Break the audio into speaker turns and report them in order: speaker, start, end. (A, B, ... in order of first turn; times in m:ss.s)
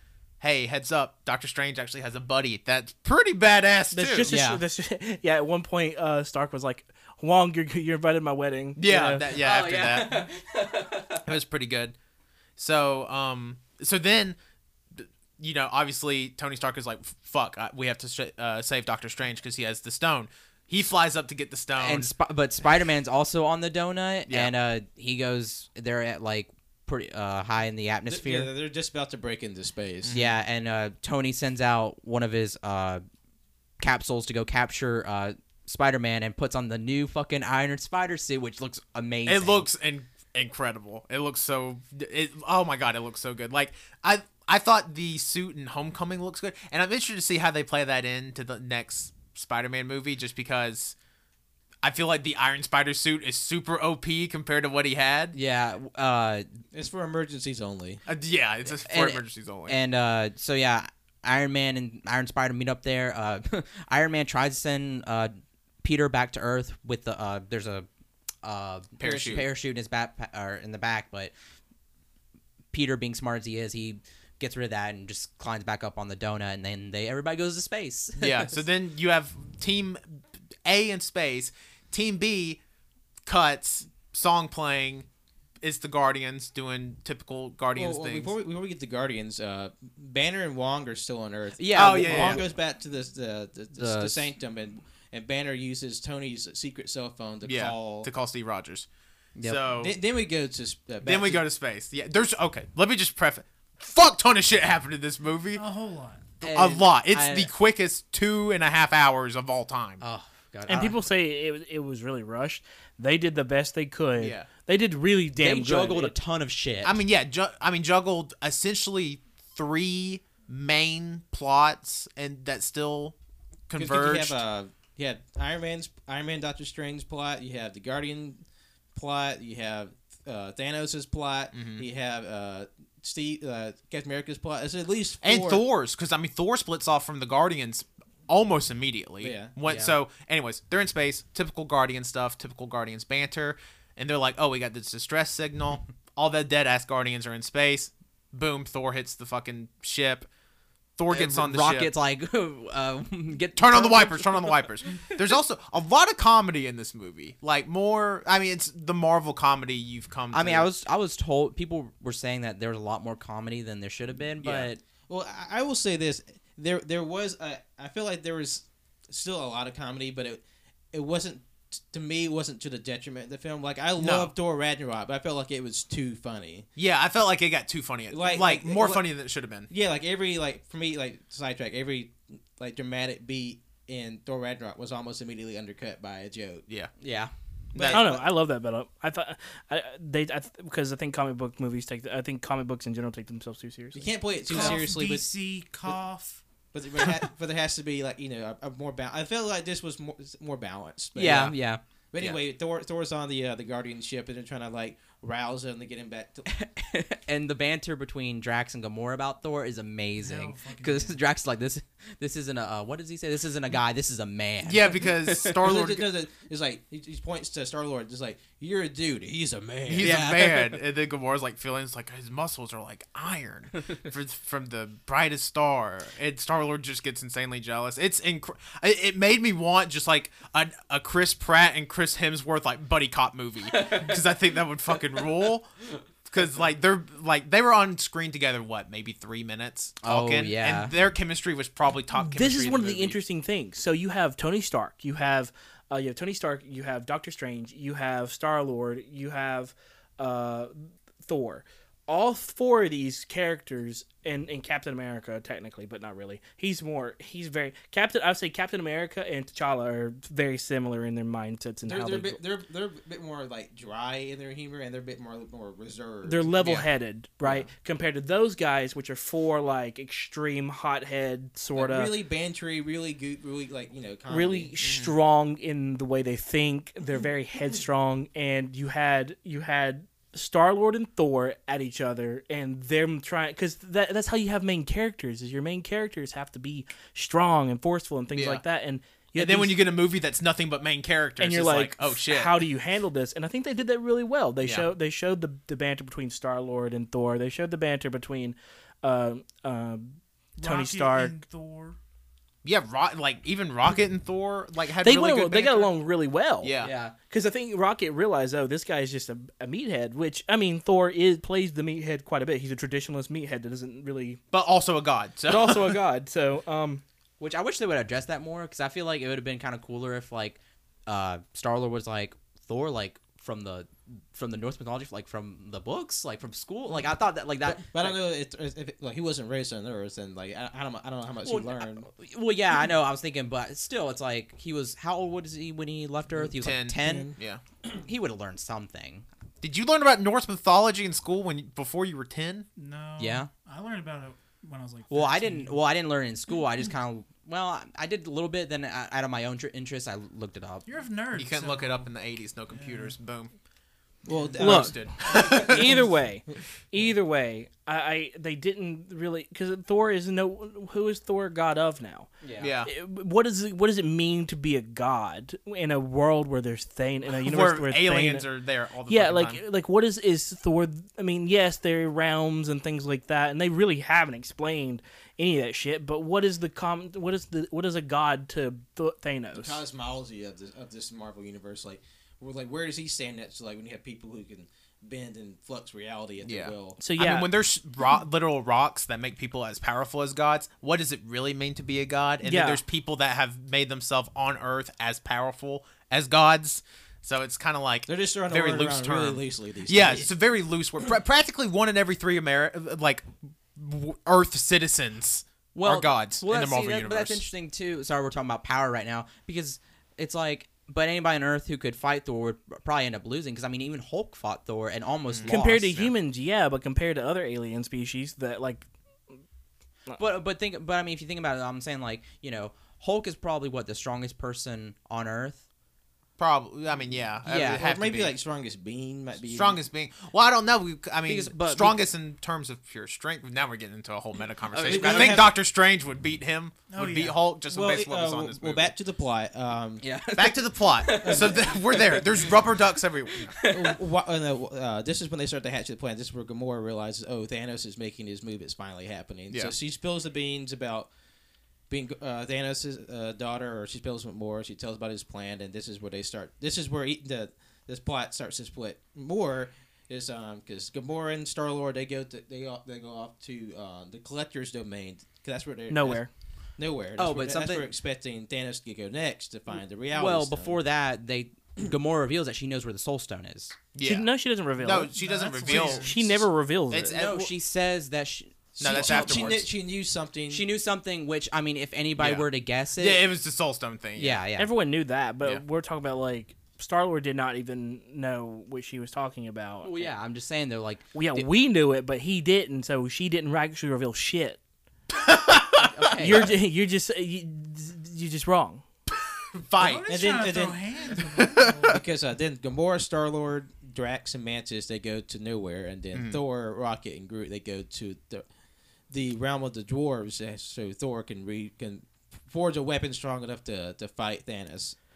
0:00.4-0:04.4 A
0:03.9-0:09.3 B
0:04.2-0:04.6 C
0:08.8-0:10.3 A
0:09.3-0:11.3 C
0:11.2-0:12.0 A
0:12.6-0:14.4 A
0:14.9-0:22.1 A
0:21.8-0:28.5 C
0:28.1-0:30.2 D
0:30.0-0:30.3 A
0:30.1-0:33.0 C
0:33.8-0:39.7 C
0:39.3-0:51.0 A
0:51.8-0:55.4 A
0:55.3-0:56.5 C
0:56.7-0:58.0 D
0:58.1-0:59.8 A
0:58.8-1:07.9 C
1:08.4-1:11.3 C
1:09.0-1:09.4 A
1:12.7-1:18.6 C
1:18.2-1:22.6 A
1:23.3-1:25.1 A
1:25.6-1:28.3 A
1:27.8-1:38.1 D
1:31.6-1:32.4 C
1:31.8-1:32.4 A
1:33.8-1:34.3 C
1:37.4-1:38.9 A
1:39.4-1:39.6 C
1:39.4-1:40.0 A
1:39.8-1:41.4 D
1:41.0-1:45.6 A
1:45.5-1:46.3 E
1:46.4-1:47.5 C
1:46.4-1:50.0 A
1:50.0-1:51.0 C
1:50.7-1:56.1 B
1:54.2-1:54.5 A
1:55.4-1:57.0 C
1:56.8-2:03.2 A
2:03.7-2:04.4 A
2:03.8-2:08.4 D
2:09.0-2:15.6 D
2:11.5-2:11.8 A
2:15.2-2:30.3 A
2:19.2-2:19.5 D
2:19.6-2:20.0 C
2:31.0-2:31.9 A
2:31.1-2:35.2 C
2:33.6-2:40.7 A
2:40.3-2:44.8 C
2:45.1-2:56.7 D
2:54.0-2:54.3 A
2:56.8-2:59.7 A
2:58.1-2:59.1 D
2:59.7-3:06.6 D
3:07.0-3:07.3 C
3:07.7-3:08.2 A
3:07.8-3:08.2 D
3:07.8-3:14.1 B
3:13.9-3:15.3 D
3:14.5-3:16.4 E
3:16.7-3:21.6 D
3:21.2-3:21.8 C
3:22.1-3:26.5 D
3:26.5-3:35.7 C
3:30.2-3:31.2 E
3:34.6-3:36.0 A
3:35.6-3:40.3 D
3:39.9-3:55.7 A
3:40.0-3:40.8 C
3:53.7-3:54.1 C
3:56.3-4:03.2 A
4:00.0-4:00.9 C
4:02.2-4:22.4 B
4:21.9-4:26.6 D
4:26.2-4:32.2 B
4:31.8-4:34.7 D
4:34.3-4:49.9 B
4:34.8-4:35.2 A
4:48.3-4:48.6 A
4:49.4-4:52.6 A
4:51.4-5:01.4 B
4:54.6-4:54.9 A
5:00.6-5:02.0 E
5:02.6-5:05.9 A
5:05.0-5:06.8 B
5:06.6-5:06.9 A
5:06.8-5:07.2 C
5:07.3-5:14.4 B
5:14.5-5:16.0 A
5:15.5-5:17.0 B
5:17.4-5:28.2 C
5:27.6-5:32.1 D
5:31.4-5:37.4 C
5:36.4-5:37.3 D
5:36.6-5:37.6 A
5:38.0-5:39.2 C
5:39.6-5:42.7 A
5:42.8-5:45.8 E
5:43.2-5:43.5 C
5:45.1-5:50.8 C
5:50.9-5:52.1 E
5:51.3-5:53.5 A
5:52.7-5:53.2 E
5:54.3-5:55.7 D
5:54.6-5:56.0 A
5:54.6-6:02.3 B
6:02.4-6:02.7 C
6:02.6-6:02.9 A
6:02.8-6:08.5 B
6:07.3-6:09.6 A
6:09.1-6:19.8 B
6:19.6-6:27.0 D
6:26.4-6:47.4 A
6:27.0-6:27.5 B
6:32.4-6:32.8 B
6:38.1-6:40.3 D
6:45.7-6:56.1 C
6:55.3-6:55.7 A
6:55.5-6:58.9 B
7:00.2-7:05.6 C
7:06.4-7:08.4 A
7:07.5-7:07.8 C
7:07.5-7:09.8 D
7:09.5-7:18.9 A
7:11.2-7:12.0 C
7:14.7-7:15.5 C
7:14.8-7:15.5 D
7:16.9-7:17.4 E
7:17.7-7:20.0 D
7:20.0-7:24.0 C
7:20.4-7:23.6 A
7:21.2-7:21.8 D
7:23.6-7:31.1 D
7:31.9-7:46.2 D
7:45.9-7:46.3 B
7:46.8-7:50.8 D
7:47.2-7:47.9 C
7:50.1-7:53.8 C
7:54.0-7:57.5 A
7:54.0-7:57.2 B
7:55.1-7:56.2 E
7:57.1-7:59.7 C
7:58.8-8:00.7 D
7:58.8-7:59.6 A
8:00.5-8:03.2 C
8:02.2-8:04.4 A
8:04.2-8:04.7 C
8:04.6-8:10.1 B
8:09.8-8:11.5 C
8:11.1-8:14.6 B
8:15.2-8:15.8 A
8:15.8-8:16.5 C
8:16.1-8:18.8 B
8:19.5-8:20.2 A
8:19.8-8:22.0 E
8:20.1-8:21.1 D
8:21.3-8:21.9 A
8:21.9-8:28.4 D
8:26.1-8:26.4 A
8:29.1-8:35.0 D